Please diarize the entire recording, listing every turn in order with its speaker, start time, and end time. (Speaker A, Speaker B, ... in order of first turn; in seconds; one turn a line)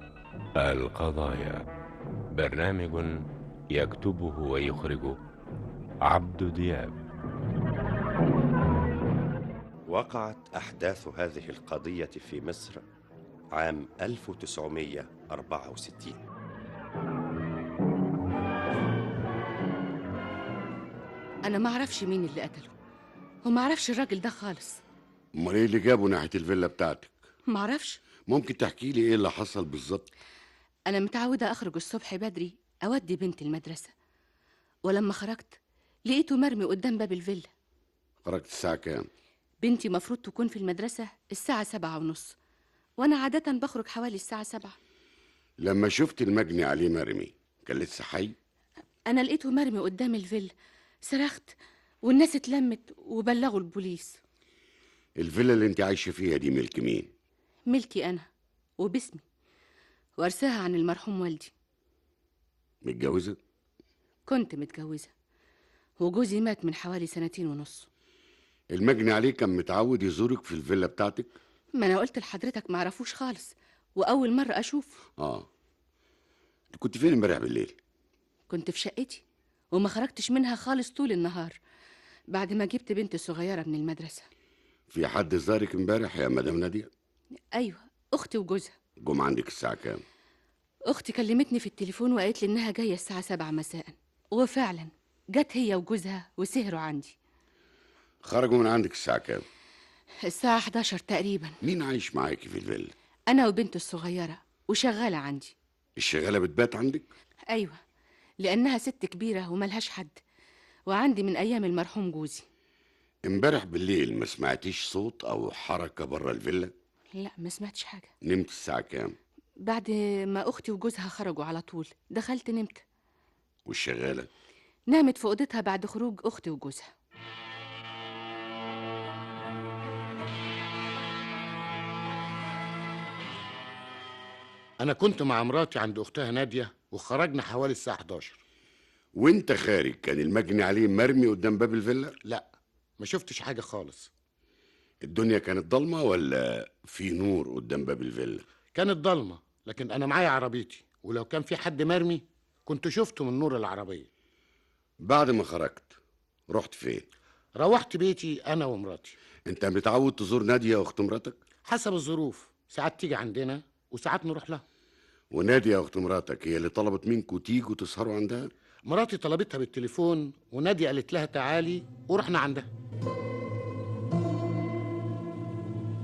Speaker A: 0.6-1.6
Speaker A: 2.3-3.2
Speaker A: 3.7-5.2
Speaker A: 6.0-7.0
Speaker B: 9.9-12.8
Speaker B: 13.5-16.2
Speaker C: 21.4-22.7
Speaker C: 23.4-24.8
Speaker D: 25.3-27.1
Speaker C: 27.5-28.0
Speaker D: 28.3-30.1
Speaker C: 30.9-33.9
Speaker C: 34.8-37.5
Speaker D: 38.2-39.1
Speaker C: 39.6-42.3
Speaker C: 43.0-44.8
Speaker D: 45.6-48.4
Speaker C: 49.1-50.5
Speaker C: 51.0-54.2
Speaker D: 55.2-57.1
Speaker C: 57.7-58.3
Speaker C: 58.8-59.2
Speaker C: 60.2-61.5
Speaker D: 62.8-63.4
Speaker C: 64.2-65.1
Speaker C: 66.0-67.9
Speaker D: 68.7-71.4
Speaker C: 71.7-75.0
Speaker D: 75.2-75.5
Speaker D: 76.7-77.8
Speaker C: 78.5-79.2
Speaker C: 79.7-81.6
Speaker C: 82.3-84.2
Speaker D: 84.9-86.9
Speaker C: 87.5-88.7
Speaker D: 89.0-90.0
Speaker C: 90.9-97.1
Speaker D: 98.2-99.4
Speaker C: 100.2-101.5
Speaker D: 101.6-102.9
Speaker C: 103.3-105.5
Speaker D: 106.0-107.1
Speaker C: 107.5-107.8
Speaker C: 108.4-110.2
Speaker C: 110.9-112.4
Speaker D: 113.2-116.7
Speaker C: 117.1-118.1
Speaker D: 118.2-119.2
Speaker C: 119.6-122.8
Speaker D: 123.7-124.3
Speaker C: 124.9-126.9
Speaker E: 134.8-138.4
Speaker D: 139.1-142.2
Speaker E: 142.2-144.1
Speaker D: 145.0-148.4
Speaker E: 148.7-154.1
Speaker D: 155.0-156.0
Speaker D: 156.5-157.1
Speaker E: 157.5-159.2
Speaker D: 159.4-161.4
Speaker E: 161.6-164.6
Speaker D: 165.3-168.5
Speaker E: 168.8-172.7